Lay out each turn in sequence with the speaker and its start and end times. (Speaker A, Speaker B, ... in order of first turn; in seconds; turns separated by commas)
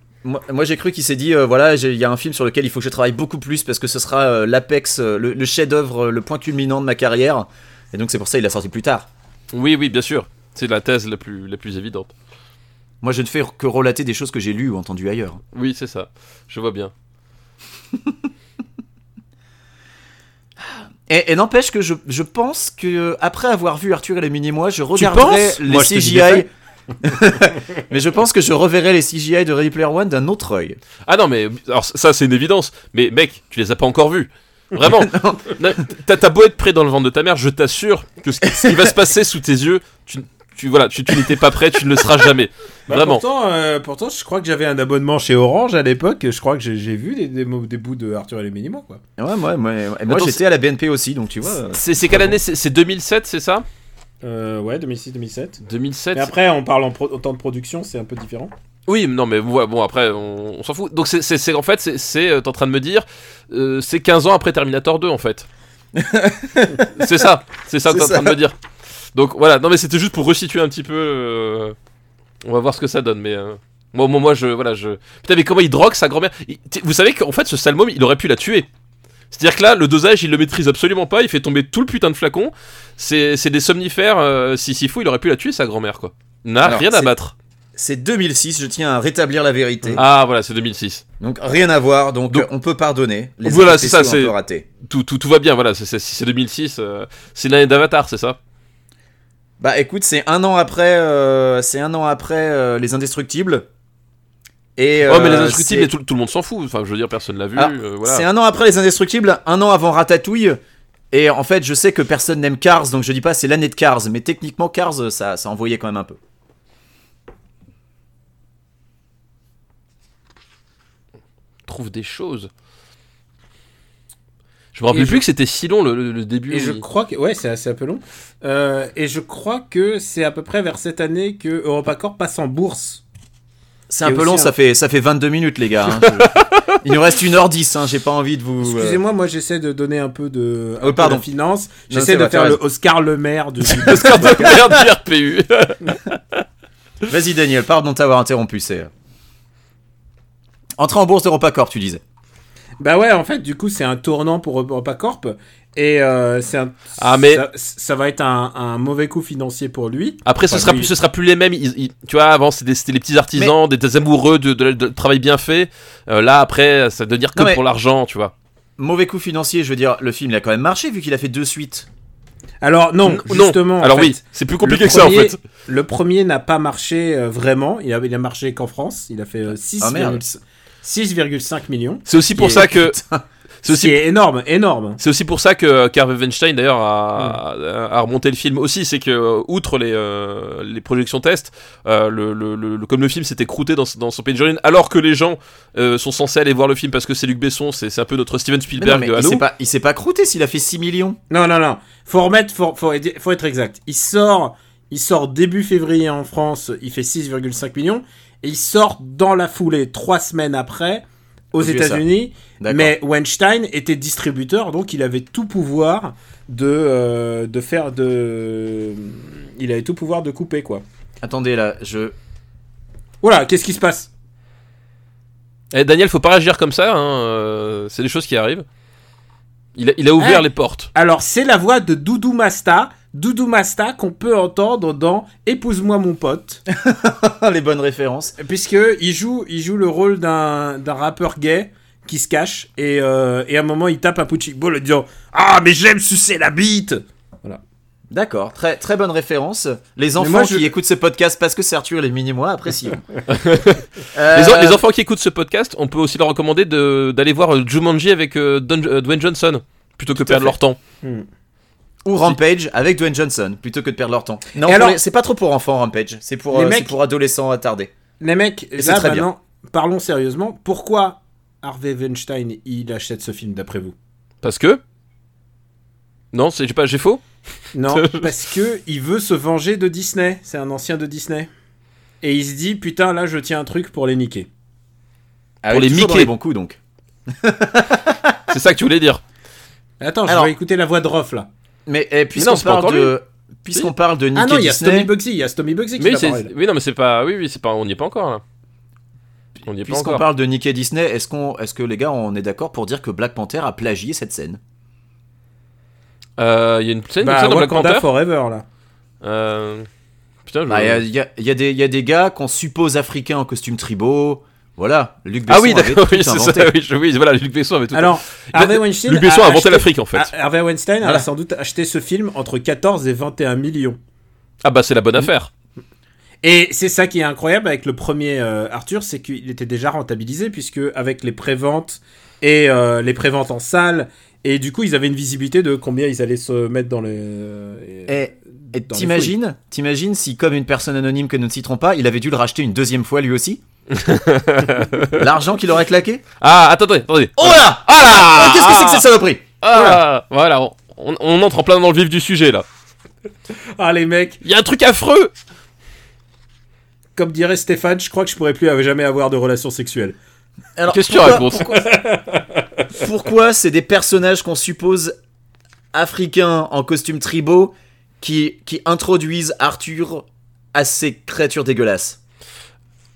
Speaker A: 0.2-9.1, Speaker B: 9.5-12.1, Speaker A: 13.0-15.4, Speaker B: 15.5-16.9, Speaker A: 21.1-26.5, Speaker B: 24.9-26.4, Speaker A: 27.0-30.8, Speaker B: 31.1-43.2, Speaker A: 34.8-35.6, Speaker A: 38.5-38.8, Speaker C: 42.9-49.0, Speaker A: 49.2-52.4, Speaker B: 50.1-50.4, Speaker B: 51.7-53.6, Speaker C: 54.2-55.6, Speaker B: 55.6-56.3, Speaker C: 56.1-58.5, Speaker B: 58.9-65.5, Speaker A: 65.9-67.1, Speaker B: 66.9-68.5, Speaker A: 67.9-68.4, Speaker B: 69.1-71.7, Speaker B: 72.4-78.7, Speaker B: 79.3-87.3, Speaker A: 86.6-87.1, Speaker A: 87.8-90.0, Speaker B: 89.9-91.0, Speaker A: 91.2-94.7, Speaker B: 93.4-98.4, Speaker A: 99.6-103.7, Speaker A: 104.8-105.9, Speaker B: 105.1-108.2, Speaker A: 107.5-110.6, Speaker A: 111.1-116.2, Speaker B: 121.7-122.5, Speaker B: 124.7-126.8, Speaker C: 124.9-125.2, Speaker C: 126.5-133.0, Speaker A: 133.9-139.0, Speaker C: 134.0-134.5, Speaker B: 136.0-136.8, Speaker C: 138.6-144.5, Speaker A: 140.8-141.2, Speaker A: 141.9-142.6, Speaker B: 143.7-146.2, Speaker A: 144.0-144.6, Speaker A: 147.1-148.9, Speaker A: 150.8-152.0, Speaker C: 152.8-160.9, Speaker B: 157.0-157.4, Speaker B: 160.2-168.3, Speaker A: 167.3-167.6, Speaker A: 168.8-171.9, Speaker C: 172.6-182.0, Speaker B: 173.1-175.3, Speaker A: 179.8-180.2, Speaker B: 182.1-183.0, Speaker A: 182.3-183.2, Speaker B: 183.6-184.0, Speaker C: 183.7-185.0, Speaker B: 185.0-199.4, Speaker A: 198.8-201.2, Speaker C: 201.3-220.8, Speaker A: 211.6-212.0, Speaker A: 212.6-212.9, Speaker A: 221.2-222.1, Speaker C: 223.2-224.1, Speaker B: 225.7-228.6, Speaker B: 229.8-230.9, Speaker C: 230.2-236.6, Speaker A: 236.7-238.3, Speaker C: 238.4-247.6, Speaker A: 248.1-253.0, Speaker C: 250.2-250.7, Speaker B: 253.3-260.8, Speaker A: 254.1-254.8, Speaker A: 260.1-260.6, Speaker A: 262.0-267.9, Speaker C: 264.6-265.0, Speaker C: 266.5-266.9, Speaker C: 268.2-273.9, Speaker A: 268.8-269.3, Speaker B: 274.4-274.8, Speaker B: 276.3-277.2, Speaker C: 277.7-281.5, Speaker B: 277.9-278.3, Speaker C: 282.2-284.5, Speaker B: 285.6-286.3, Speaker A: 285.7-286.8, Speaker A: 287.3-288.4, Speaker B: 288.5-289.2, Speaker C: 290.0-291.5, Speaker A: 290.3-290.5, Speaker A: 291.9-295.1, Speaker B: 292.4-293.1, Speaker C: 294.3-296.5, Speaker B: 296.0-298.4, Speaker B: 299.6-300.2, Speaker A: 299.8-304.6, Speaker B: 306.4-308.0, Speaker C: 307.2-308.6, Speaker B: 309.2-309.9, Speaker B: 310.4-311.0, Speaker A: 310.7-316.7, Speaker B: 315.5-320.3, Speaker C: 317.9-324.0, Speaker B: 324.6-325.5, Speaker C: 326.4-339.3, Speaker A: 338.1-343.6, Speaker B: 343.9-345.2, Speaker A: 345.1-346.2, Speaker B: 346.4-349.1, Speaker A: 347.4-350.0, Speaker B: 349.6-352.6, Speaker C: 353.8-354.4, Speaker B: 354.4-355.3, Speaker C: 357.1-360.2, Speaker A: 360.8-361.8, Speaker B: 360.9-361.8, Speaker C: 361.7-362.6, Speaker A: 362.9-365.1, Speaker A: 365.9-372.2